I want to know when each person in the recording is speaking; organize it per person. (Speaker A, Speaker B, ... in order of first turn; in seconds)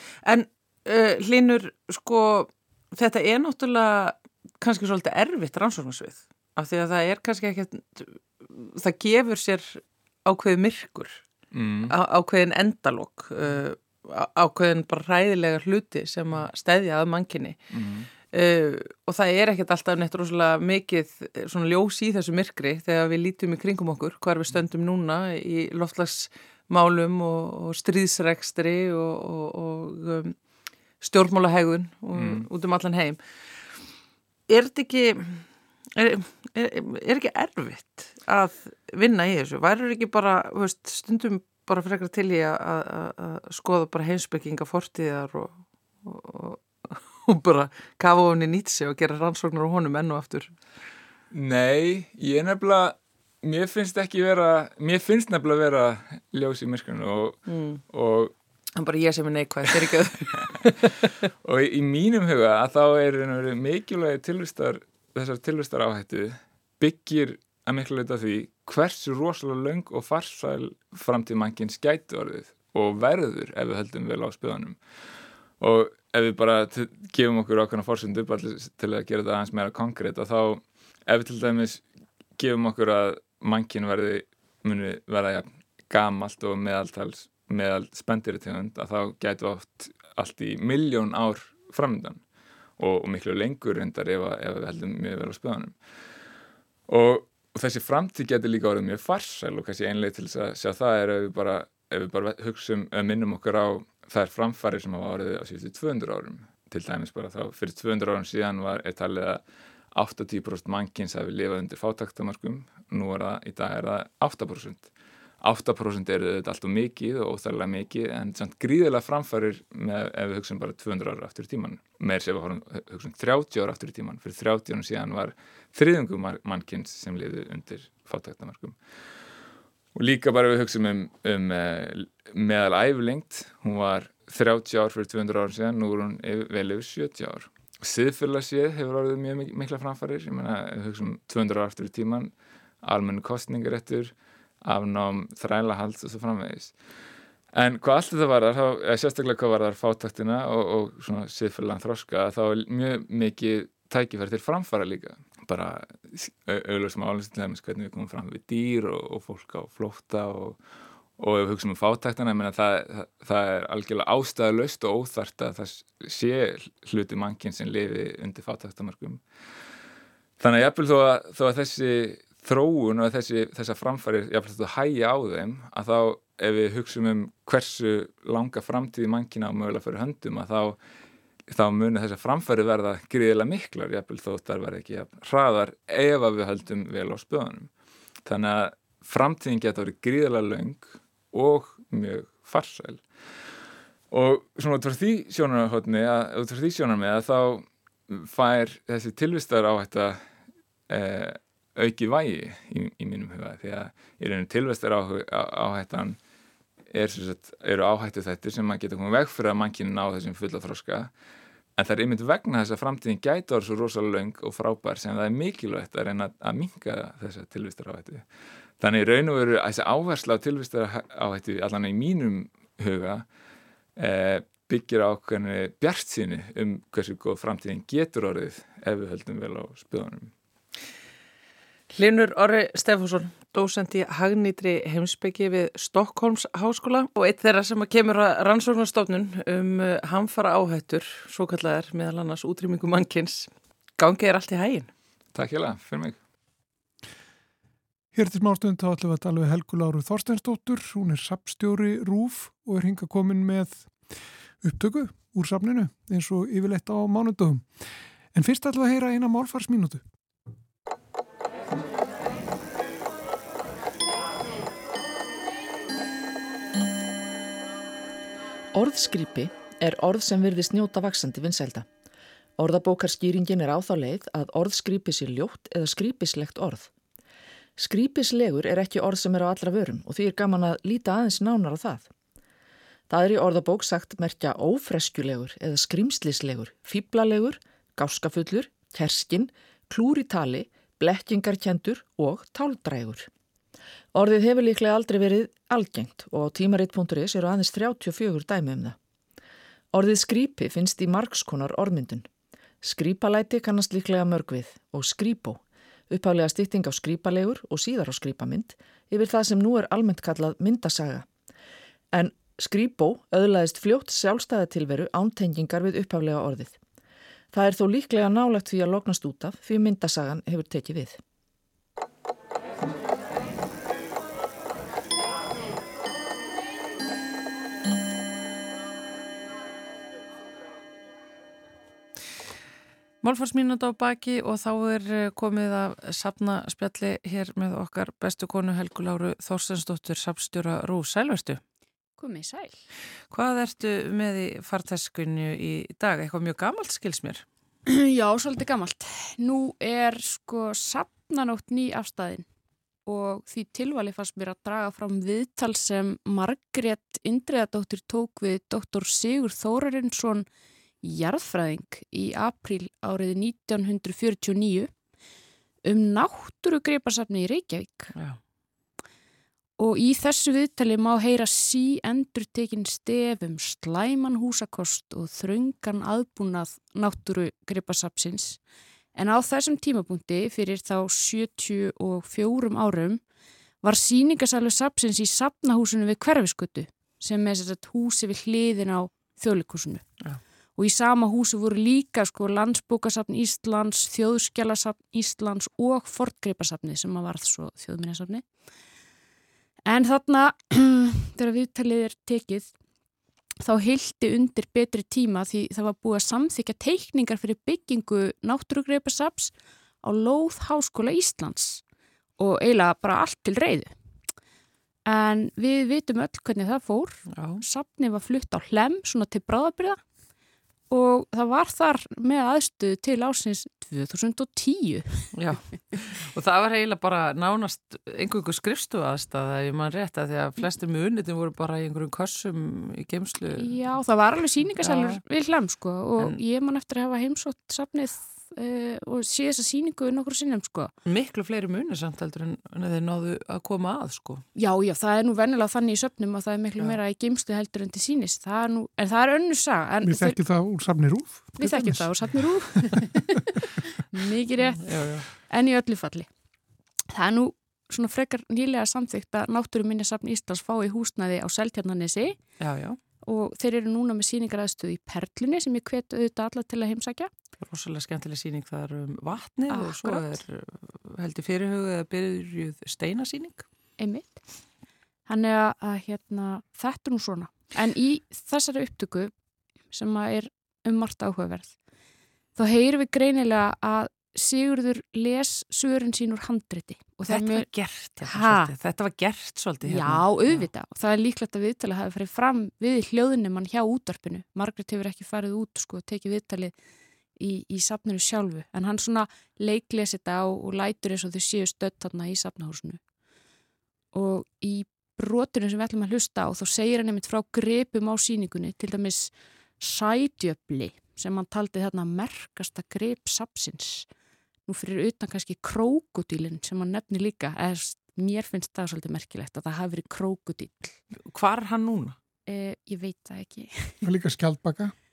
Speaker A: 0.2-11.2, 11.9-17.6, 18.3-30.4, 31.0-33.2, 34.5-35.5, 36.0-50.6, 57.5-57.8, 58.8-61.1, 231.9-244.9, 333.2-341.6, 343.3-347.4, 417.3-417.6, 425.4-433.8, 434.6-435.2, 441.1-444.4, 454.8-455.3, 462.6-463.0, 467.6-473.6, 487.3-490.7, 521.2-522.2
Speaker B: 11.5-11.9, 17.7-18.1, 32.1-32.5, 51.3-58.3, 61.4-74.8, 75.6-81.8, 82.4-92.2, 92.8-95.8, 96.9-109.4, 109.9-114.9, 115.4-128.8, 129.9-142.3, 142.8-146.8, 147.5-160.6, 161.2-169.2, 170.4-180.8, 181.5-187.7, 188.3-193.0, 194.1-200.2, 200.9-206.2, 206.9-211.1, 211.8-218.2, 218.8-223.3, 224.0-230.3, 245.3-246.2
Speaker C: 248.1-260.0, 450.0-452.9, 524.0-524.9
Speaker D: 268.7-271.9, 272.6-276.9, 277.8-282.1, 283.1-293.3, 294.1-299.0, 299.9-302.3, 302.8-311.3, 312.1-316.8, 317.5-321.2
Speaker E: 342.2-342.8, 347.9-352.5, 353.1-360.5, 361.0-364.9, 365.8-368.1, 369.8-378.6, 379.1-383.2, 383.8-390.0, 390.8-398.4, 399.9-402.7, 403.6-411.8, 412.4-413.9, 415.1-420.0, 420.9-425.3, 433.6-440.9, 444.6-450.4, 451.6-456.3, 457.1-462.4, 463.2-467.3, 469.7-470.4, 474.0-474.4, 475.3-479.3, 479.9-481.7, 482.6-488.7, 489.8-496.8, 497.4-503.0, 504.1-514.1, 514.7-521.0, 522.5-524.0